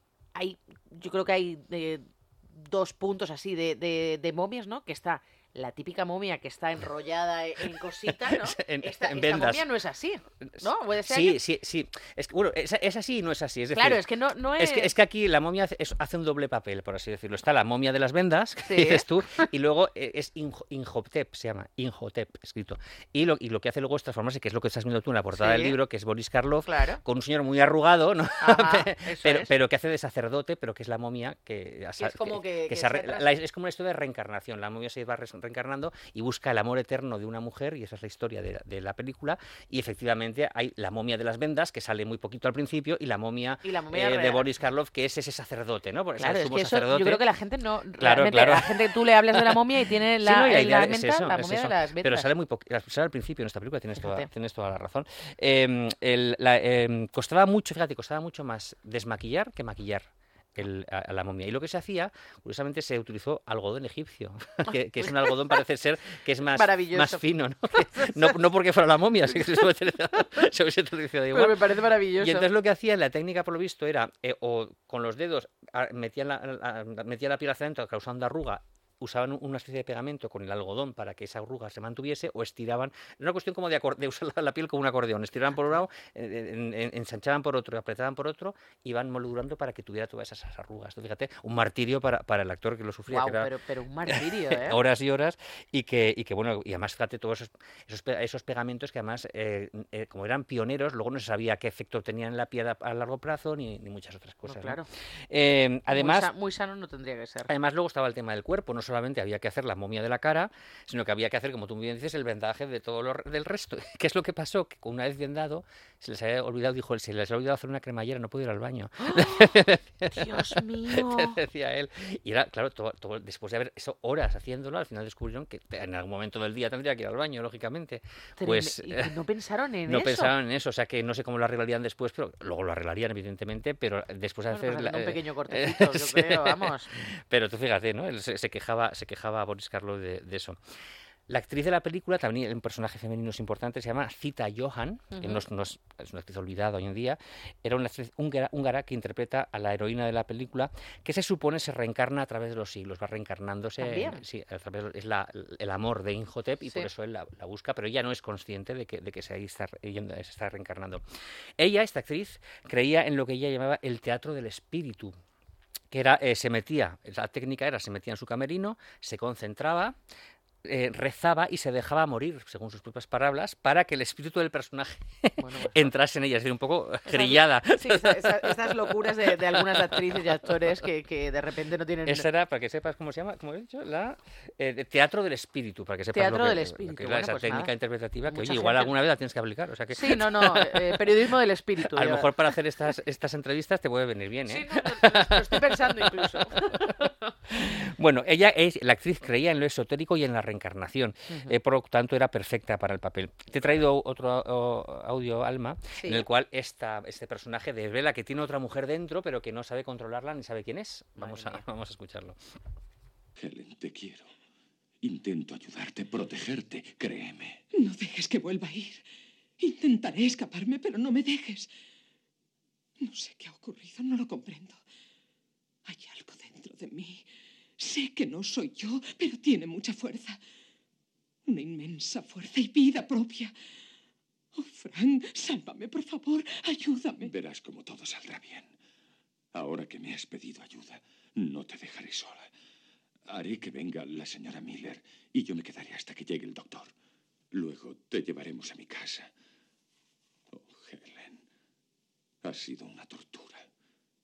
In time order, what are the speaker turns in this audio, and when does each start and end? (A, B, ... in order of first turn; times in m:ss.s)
0:00.3-0:11.4 A
0:07.8-0:09.7 B
0:10.6-0:14.0 B
0:13.7-0:14.9 A
0:14.6-0:47.2 B
0:18.6-0:19.5 A
0:25.3-0:25.8 A
0:26.6-0:27.0 A
0:28.4-0:29.5 A
0:32.0-0:33.3 A
0:43.6-0:44.4 A
0:46.2-0:52.3 A
0:48.0-0:49.6 B
0:50.2-1:11.6 B
0:54.0-0:54.3 A
1:04.6-1:05.3 A
1:06.5-1:07.2 A
1:07.8-1:08.3 A
1:11.3-1:12.5 A
1:12.2-1:33.5 B
1:33.1-1:34.8 A
1:34.1-1:46.3 B
1:44.4-1:44.9 A
1:45.9-1:47.5 A
1:47.4-2:09.1 B
1:59.0-2:01.4 A
2:08.4-2:10.3 A
2:09.8-2:20.6 B
2:14.5-2:16.9 A
2:21.3-2:41.0 B
2:25.1-2:25.4 A
2:33.8-2:34.2 A
2:41.6-2:45.2 B
2:45.9-2:50.0 B
2:50.6-3:00.7 B
2:55.4-2:55.8 A
2:57.0-3:02.3 A
3:02.0-3:32.4 B
3:06.1-3:07.7 A
3:08.3-3:08.9 A
3:09.9-3:12.3 A
3:14.5-3:17.1 A
3:21.3-3:21.6 A
3:26.0-3:26.2 A
3:31.2-3:31.6 A
3:33.4-3:34.3 C
3:35.0-3:37.6 C
3:37.7-3:39.0 D
3:39.6-3:41.7 D
3:43.0-3:44.8 D
3:45.8-3:47.2 D
3:47.8-3:50.4 D
3:51.4-3:53.5 D
3:54.5-3:57.3 D
3:57.2-3:58.7 C
3:59.5-4:02.5 C
4:03.3-4:06.9 C
4:07.5-4:09.3 C
4:10.5-4:11.4 C
4:12.4-4:13.7 C